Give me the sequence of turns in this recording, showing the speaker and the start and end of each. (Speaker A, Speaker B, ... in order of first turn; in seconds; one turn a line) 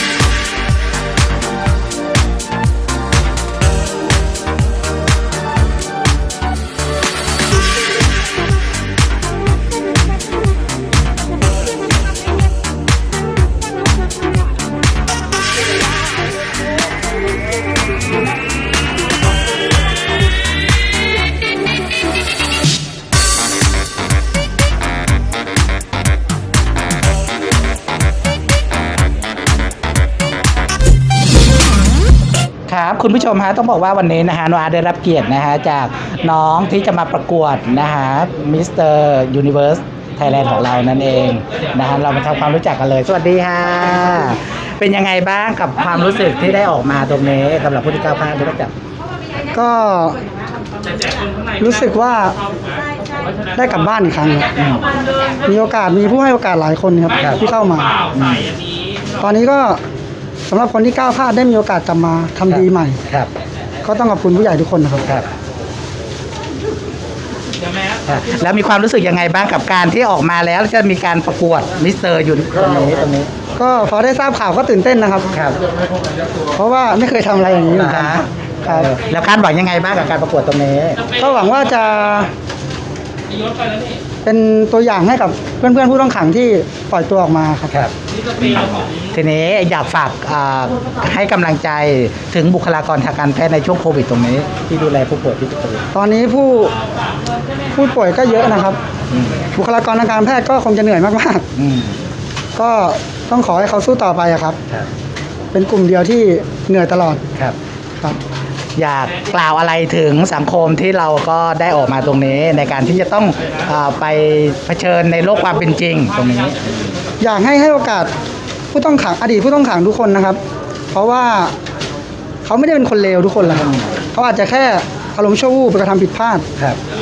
Speaker A: 32.7-48.7
Speaker B: 49.5-50.2
Speaker B: 51.6-52.4
Speaker B: 53.5-54.5
Speaker A: 54.6-54.8
Speaker B: 55.4-58.0
Speaker A: 58.1-58.6
Speaker B: 59.2-59.8
Speaker B: 60.5-63.0
Speaker A: 62.5-63.3
Speaker B: 63.8-65.0
Speaker A: 68.0-73.3
Speaker B: 73.6-75.3
Speaker A: 75.3-75.6
Speaker B: 76.5-78.9
Speaker A: 77.7-81.1
Speaker B: 81.1-82.3
Speaker B: 84.2-87.7
Speaker A: 87.7-95.9
Speaker B: 95.9-96.7
Speaker B: 97.7-98.8
Speaker B: 99.5-101.4
Speaker A: 101.5-102.0
Speaker B: 102.5-104.6
Speaker B: 105.5-107.2
Speaker A: 108.8-116.7
Speaker B: 117.2-118.1
Speaker B: 118.7-120.4
Speaker B: 120.9-121.5
Speaker B: 122.4-126.5